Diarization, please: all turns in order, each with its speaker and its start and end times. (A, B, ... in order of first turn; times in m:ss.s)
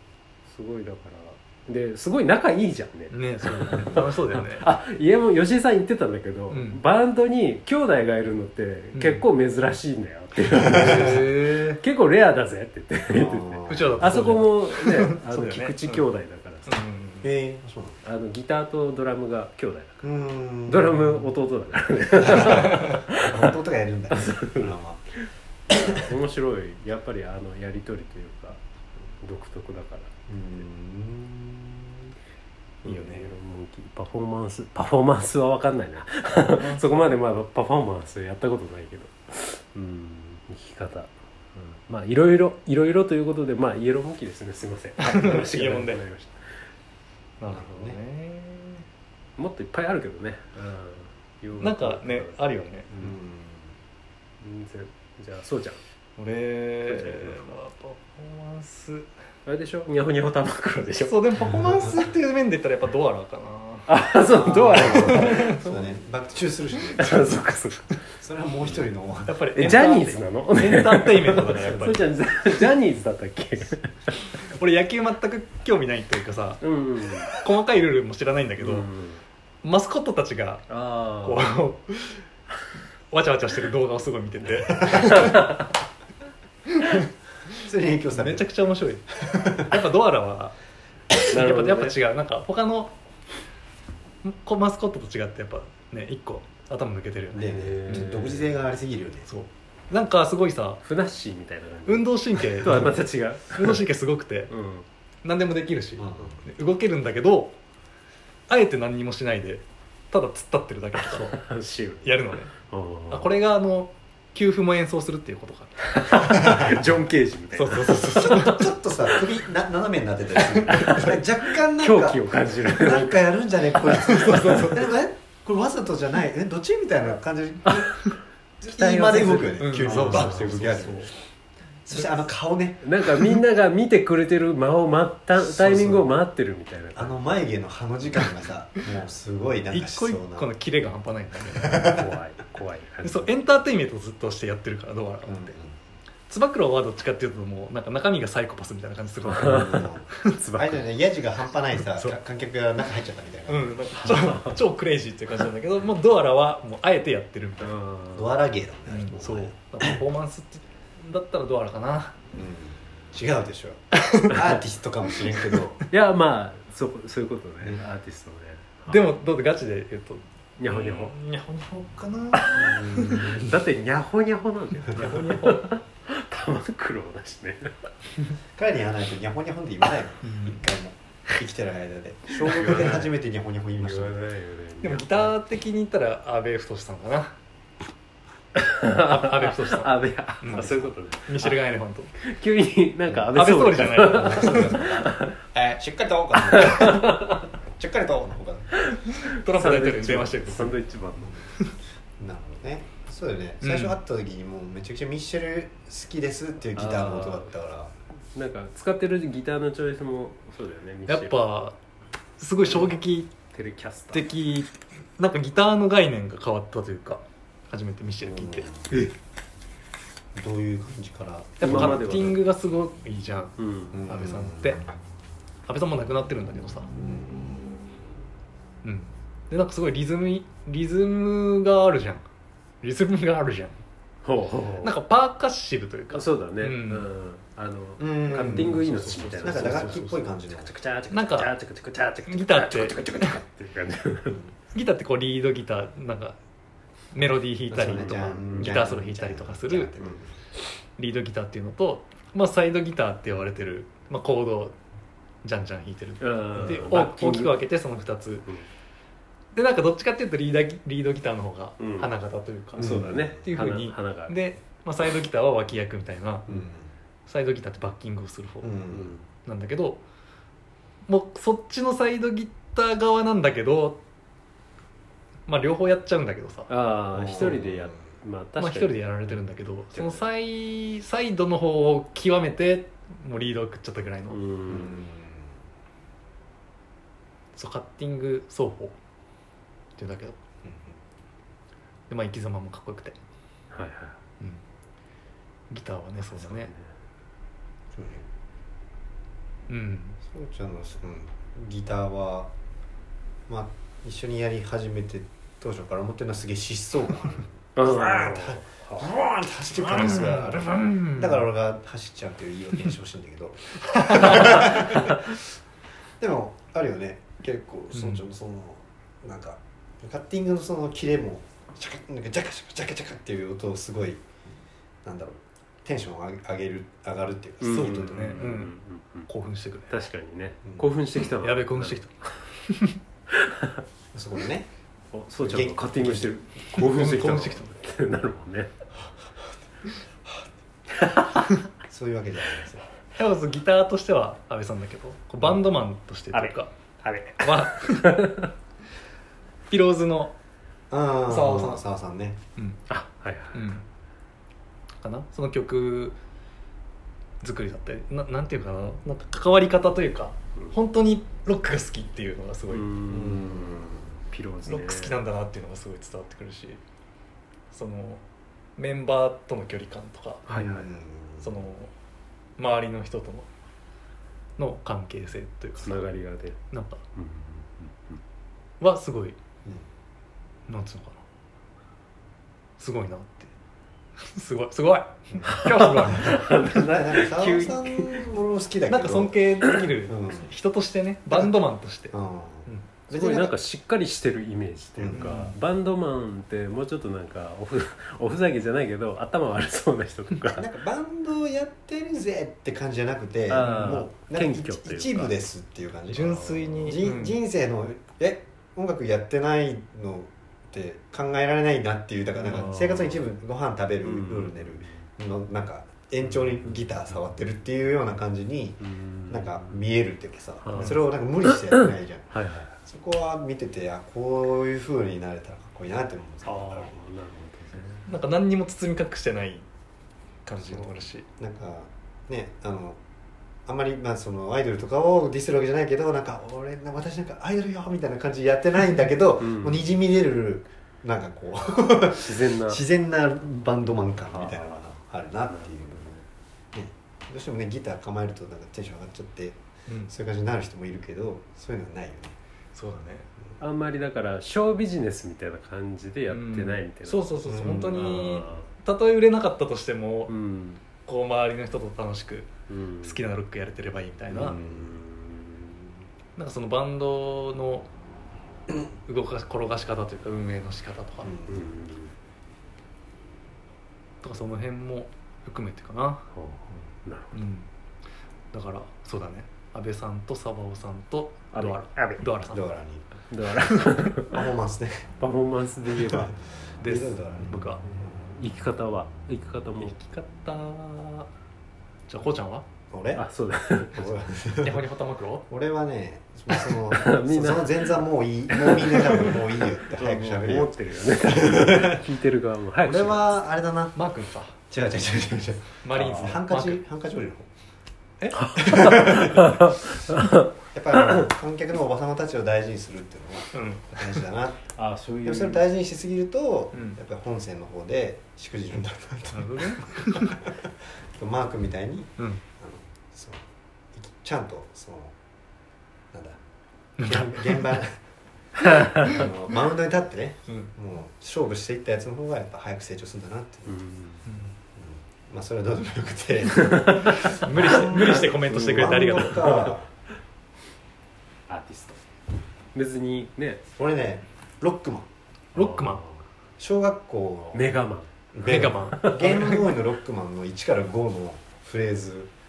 0:00.4-0:16.8 A
0:03.1-0:04.7 B
0:06.5-0:06.8 B
0:08.9-0:09.2 B
0:10.5-0:11.2 C
0:10.6-0:11.8 B
0:13.1-0:14.4 C
0:13.7-0:16.0 B
0:16.7-0:17.3 B
0:17.2-0:18.0 C
0:18.0-0:20.1 A
0:20.0-0:21.2 C
0:20.6-0:23.5 A
0:22.2-0:25.0 C
0:24.1-0:30.2 A
0:25.7-0:26.1 C
0:30.3-0:32.0 C
0:32.8-0:33.2 C
0:32.8-0:46.6 A
0:36.5-0:37.0 B
0:45.0-0:46.0 B
0:47.4-0:48.8 B
0:47.5-0:48.0 C
0:49.4-0:52.4 A
0:51.6-0:52.9 B
0:52.9-0:53.8 C
0:54.4-0:55.8 A
0:56.2-0:59.1 B
0:56.9-0:57.4 A
0:59.4-1:01.2 A
1:01.0-1:03.9 B
1:01.4-1:01.9 C
1:03.9-1:06.0 A
1:04.4-1:07.2 C
1:04.7-1:05.4 B
1:07.0-1:08.0 A
1:08.2-1:09.5 C
1:09.3-1:12.1 B
1:09.5-1:14.2 A
1:14.4-1:16.6 B
1:16.6-1:17.3 A
1:17.3-1:18.9 B
1:18.6-1:19.2 A
1:19.6-1:22.2 B
1:20.7-1:21.5 A
1:23.1-1:25.6 B
1:25.1-1:25.6 A
1:26.7-1:27.1 B
1:27.6-1:28.5 C
1:28.1-1:30.6 B
1:29.2-1:29.8 C
1:31.2-1:32.9 B
1:31.3-1:32.0 A
1:34.2-1:38.1 B
1:37.3-1:39.3 C
1:37.4-1:38.6 A
1:39.3-1:40.8 B
1:40.8-1:43.8 A
1:41.9-1:43.0 B
1:43.5-1:44.5 B
1:44.5-1:44.8 A
1:45.2-1:47.6 B
1:46.0-1:46.4 C
1:48.5-1:51.4 B
1:51.0-1:53.3 A
1:52.0-1:52.5 B
1:53.1-1:56.7 B
1:55.9-1:58.3 A
1:56.4-1:56.7 C
1:57.6-1:58.7 B
1:58.1-2:08.0 C
2:00.6-2:03.3 A
2:00.7-2:01.1 B
2:04.0-2:04.9 B
2:07.6-2:08.0 A
2:08.6-2:11.1 C
2:08.6-2:10.6 A
2:09.6-2:11.1 B
2:11.8-2:12.8 C
2:12.8-2:17.3 A
2:15.4-2:16.1 C
2:16.9-2:20.5 C
2:19.7-2:22.1 B
2:21.6-2:22.0 C
2:21.8-2:23.3 A
2:23.0-2:25.5 B
2:25.2-2:25.8 C
2:26.3-2:30.3 B
2:29.3-2:30.8 A
2:29.3-2:34.1 C
2:31.9-2:32.2 B
2:33.5-2:37.7 B
2:34.0-2:34.6 A
2:37.6-2:38.3 A
2:38.1-2:40.0 C
2:38.9-2:42.2 B
2:42.3-2:45.8 C
2:44.0-2:44.4 B
2:45.9-2:49.0 A
2:48.9-2:53.4 B
2:50.6-2:51.1 A
2:52.4-2:52.6 A
2:52.5-2:53.5 C
2:53.1-2:57.9 A
2:54.9-2:55.7 B
2:58.6-3:04.2 C
3:00.2-3:00.6 B
3:02.4-3:03.1 A
3:02.6-3:03.0 B
3:03.8-3:05.3 A
3:04.8-3:07.3 B
3:08.6-3:11.6 A
3:08.9-3:12.1 B
3:10.5-3:10.9 C
3:12.2-3:15.4 A
3:13.3-3:14.9 B
3:14.1-3:17.2 C
3:16.5-3:17.4 A
3:17.7-3:18.8 C
3:18.9-3:21.5 A
3:19.1-3:20.8 B
3:22.2-3:27.9 C
3:23.6-3:24.0 B
3:26.7-3:27.5 A
3:28.3-3:31.4 A
3:31.1-3:31.8 B
3:32.4-3:33.3 B
3:33.5-3:34.3 A
3:34.1-3:39.1 B
3:38.2-3:39.0 C
3:40.3-3:42.4 C
3:41.6-3:44.8 B
3:41.6-3:42.4 A
3:43.6-3:44.0 A
3:43.9-3:44.8 C
3:45.7-3:46.9 B
3:47.0-3:47.5 C
3:48.8-3:52.2 B
3:52.8-3:53.8 B
3:54.2-3:54.9 A
3:54.8-3:57.1 B
3:56.1-4:04.4 A
3:58.0-4:00.7 C
3:58.3-4:00.2 B
4:01.1-4:01.5 B
4:02.3-4:03.4 B
4:04.7-4:06.4 B
4:07.1-4:09.9 B
4:07.7-4:10.3 C
4:07.9-4:08.7 A
4:11.0-4:14.8 B
4:15.4-4:18.5 B
4:16.2-4:17.6 A
4:19.5-4:26.6 B
4:21.8-4:22.1 A
4:22.8-4:24.4 A
4:22.8-4:23.4 C
4:26.5-4:26.9 C
4:27.3-4:28.9 B
4:28.6-4:29.2 C
4:28.9-4:29.2 A
4:29.4-4:30.0 B
4:31.1-4:34.0 B
4:35.5-4:36.7 B
4:36.7-4:39.4 A
4:37.1-4:38.0 C
4:38.6-4:44.4 B
4:39.9-4:40.2 A
4:44.3-4:45.0 A
4:44.7-4:45.5 C
4:47.5-4:48.9 B
4:50.0-4:50.4 B
4:50.6-4:51.0 C
4:52.1-4:53.2 B
4:53.7-4:54.2 A
4:55.7-4:56.7 B
4:56.3-4:56.9 A
4:57.9-4:58.3 C
4:59.7-5:00.2 B
5:00.2-5:02.5 C
5:03.5-5:15.4 C
5:07.8-5:09.1 A
5:09.9-5:11.4 B
5:14.0-5:14.8 B
5:16.2-5:24.2 C
5:17.9-5:18.2 B
5:25.0-5:28.5 C
5:27.6-5:29.3 A
5:27.7-5:28.7 B
5:29.3-5:29.9 B
5:29.9-5:32.0 A
5:31.4-5:33.0 B
5:33.3-5:33.8 A
5:34.1-5:34.7 C
5:35.1-5:38.7 A
5:35.4-5:36.4 C
5:36.7-5:37.7 B
5:40.9-5:41.5 A
5:41.9-5:42.8 C
5:43.1-5:46.7 B
5:46.3-5:48.5 A
5:47.4-5:48.3 B
5:49.7-5:50.3 B
5:50.9-5:52.4 C
5:51.3-5:51.8 B
5:52.6-5:52.8 B
5:52.9-5:53.7 A
5:53.5-5:53.8 B
5:55.0-5:56.2 B
5:57.4-6:02.9 B
6:02.7-6:05.2 A
6:03.1-6:04.1 C
6:04.6-6:06.8 B
6:07.7-6:08.2 B
6:08.8-6:10.8 B
6:10.5-6:10.9 A
6:10.6-6:11.6 C
6:11.4-6:11.9 B
6:12.6-6:13.5 B
6:14.6-6:16.0 B
6:15.8-6:16.6 A
6:16.7-6:17.0 B
6:17.1-6:18.2 A
6:18.8-6:19.4 B
6:20.7-6:21.2 B
6:22.8-6:23.5 B
6:24.2-6:26.6 B
6:25.4-6:28.3 A
6:26.2-6:29.4 C
6:28.9-6:32.9 B
6:30.0-6:30.5 C
6:31.3-6:31.5 C
6:32.1-6:33.5 C
6:33.1-6:40.6 A
6:35.0-6:35.4 C
6:35.1-6:35.5 B
6:40.5-7:02.3 C
6:43.5-6:45.4 A
6:43.6-6:43.9 B
6:46.1-6:47.4 B
6:46.4-6:46.9 A
6:52.4-6:53.3 A
6:54.0-6:55.1 A
6:56.3-6:56.7 A
6:58.8-6:59.8 A
7:00.6-7:02.7 A
7:00.7-7:01.0 B
7:02.8-7:07.0 C
7:06.4-7:08.1 A
7:08.1-7:09.6 B
7:10.4-7:11.2 B
7:10.5-7:13.0 C
7:13.6-7:26.1 C
7:19.4-7:19.8 A
7:22.2-7:22.8 A
7:24.3-7:26.2 A
7:26.7-7:32.4 C
7:29.9-7:30.1 B
7:32.7-7:33.3 B
7:33.6-7:38.7 A
7:36.3-7:40.3 B
7:37.4-7:38.4 C
7:40.3-7:40.8 A
7:41.0-7:42.5 B
7:42.7-7:43.2 A
7:43.0-7:44.6 B
7:44.3-7:45.0 C
7:44.6-7:46.0 A
7:46.4-7:47.9 B
7:49.0-7:51.5 B
7:51.2-7:51.7 C
7:51.5-7:52.1 A
7:54.2-7:56.3 B
7:56.3-7:57.4 A
7:57.3-7:57.7 B
7:58.5-8:02.6 B
8:01.5-8:02.2 A
8:02.5-8:03.1 C
8:03.3-8:04.4 A
8:04.3-8:05.1 C
8:05.2-8:06.3 A
8:06.0-8:07.6 C
8:06.8-8:07.8 B
8:08.2-8:09.9 A
8:09.8-8:11.3 B
8:12.1-8:12.6 B
8:12.9-8:13.2 C
8:13.1-8:14.2 A
8:13.9-8:14.9 C
8:14.6-8:15.4 B
8:15.5-8:22.0 C
8:16.6-8:17.9 A
8:18.5-8:23.3 A
8:22.8-8:24.0 C
8:23.9-8:24.6 B
8:24.7-8:27.5 C
8:25.8-8:26.8 B
8:26.0-8:26.3 A
8:28.2-8:29.4 B
8:28.3-8:31.3 A
8:28.6-8:29.5 C
8:30.7-8:34.6 C
8:33.5-8:34.2 B
8:34.8-8:35.6 A
8:35.2-8:45.1 C
8:36.7-8:37.0 B
8:39.3-8:40.4 B
8:46.1-8:46.4 C
8:47.0-8:47.7 B
8:47.0-8:48.0 C
8:48.6-8:49.2 A
8:49.0-8:53.8 C
8:53.7-8:54.2 A
8:54.3-8:54.5 B
8:54.8-8:59.9 C
8:56.6-8:59.7 A
8:57.1-8:59.7 B
9:01.5-9:02.0 A
9:02.7-9:03.6 A
9:03.8-9:05.1 C
9:05.5-9:06.0 B
9:05.5-9:06.2 A
9:06.6-9:07.8 C
9:07.5-9:09.2 A
9:08.3-9:12.3 C
9:08.4-9:09.8 B